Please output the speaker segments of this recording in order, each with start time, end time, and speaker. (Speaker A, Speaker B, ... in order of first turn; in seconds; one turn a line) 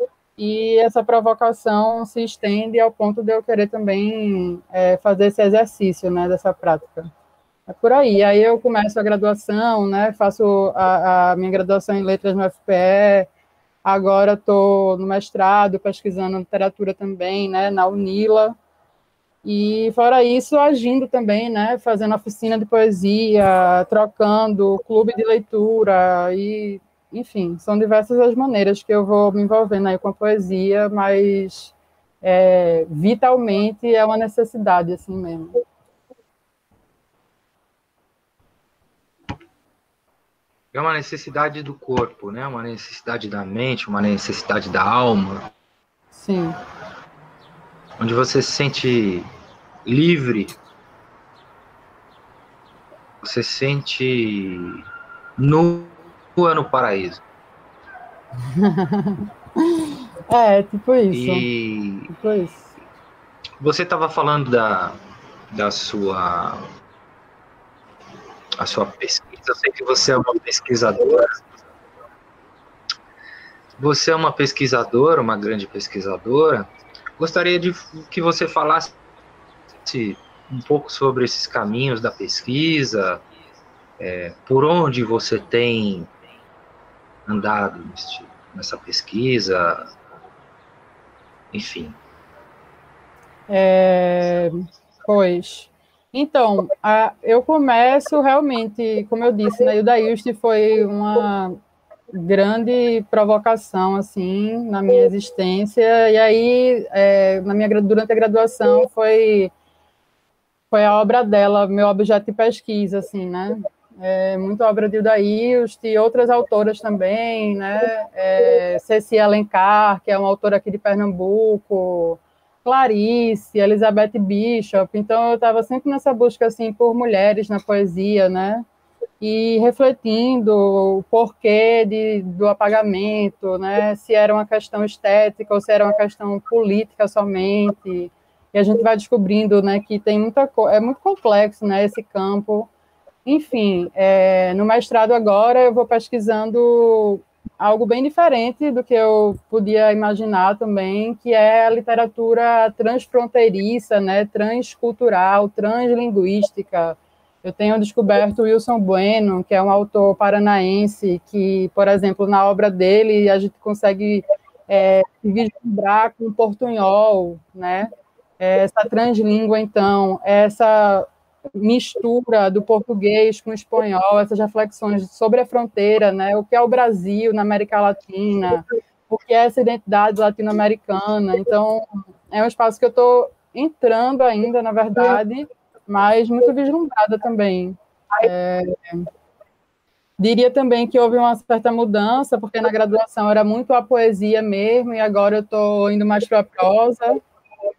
Speaker A: 0.4-7.1
Speaker A: 7.7-13.3
Speaker A: 13.8-18.6
Speaker A: 19.4-35.6
Speaker B: 40.7-45.5
Speaker A: 46.1-46.6
Speaker B: 48.0-49.3
Speaker B: 49.9-50.6
Speaker B: 53.2-54.8
Speaker B: 55.4-57.2
Speaker A: 58.5-59.2
Speaker A: 59.8-61.5
Speaker B: 61.1-62.1
Speaker A: 62.1-62.7
Speaker B: 63.6-65.0
Speaker B: 65.5-66.7
Speaker B: 68.6-71.4
Speaker B: 73.8-79.0
Speaker B: 79.8-83.2
Speaker B: 84.0-86.1
Speaker B: 87.3-89.9
Speaker B: 91.5-92.0
Speaker A: 93.5-94.5
Speaker A: 95.0-101.6
Speaker A: 102.1-109.5
Speaker A: 110.7-128.7
Speaker A: 129.2-142.7
Speaker A: 143.2-189.1
Speaker A: 190.2-197.2